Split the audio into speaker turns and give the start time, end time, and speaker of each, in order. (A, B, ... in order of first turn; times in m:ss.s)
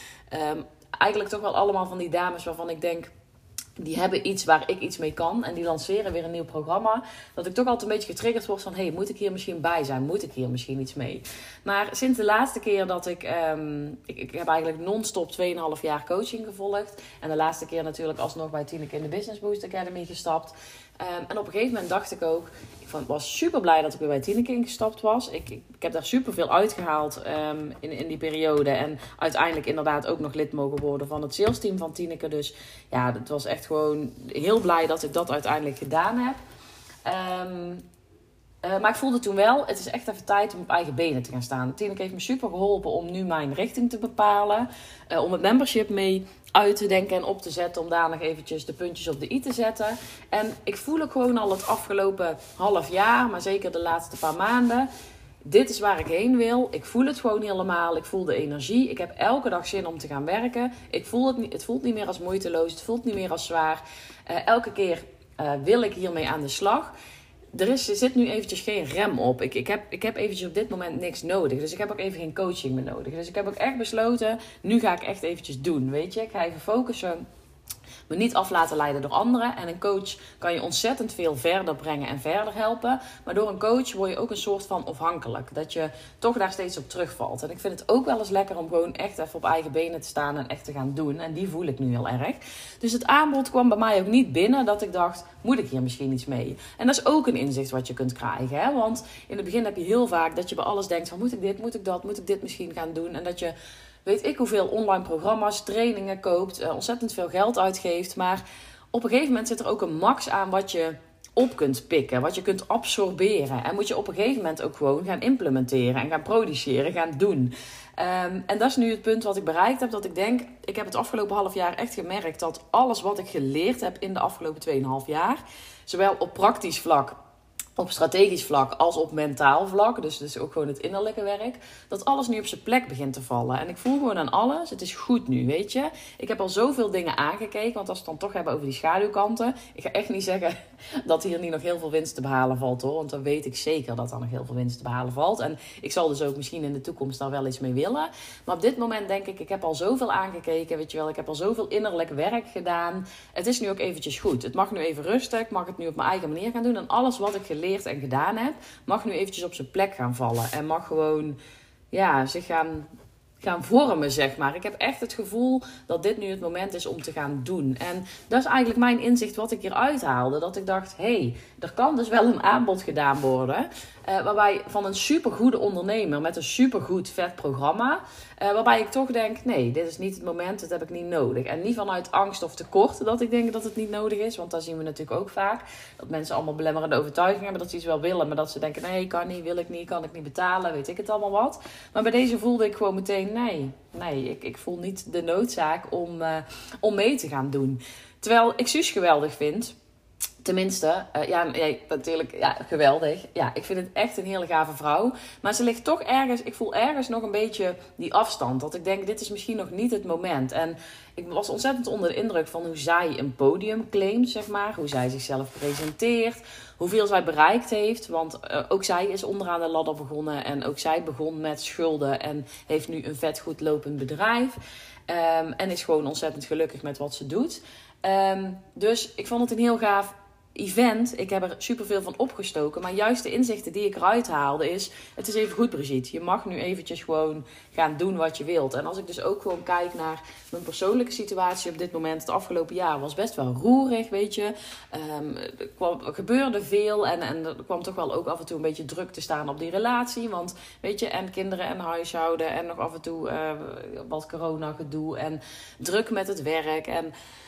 0:00.3-0:03.1 A
0:03.8-0:36.4 A
0:37.0-0:37.8 A
0:38.6-0:54.9 A
0:55.4-1:06.9 A
1:07.5-1:17.2 A
1:18.1-2:07.2 A
2:07.8-2:41.4 A
2:41.9-3:19.7 A
3:20.4-3:44.6 A
3:45.1-4:17.1 A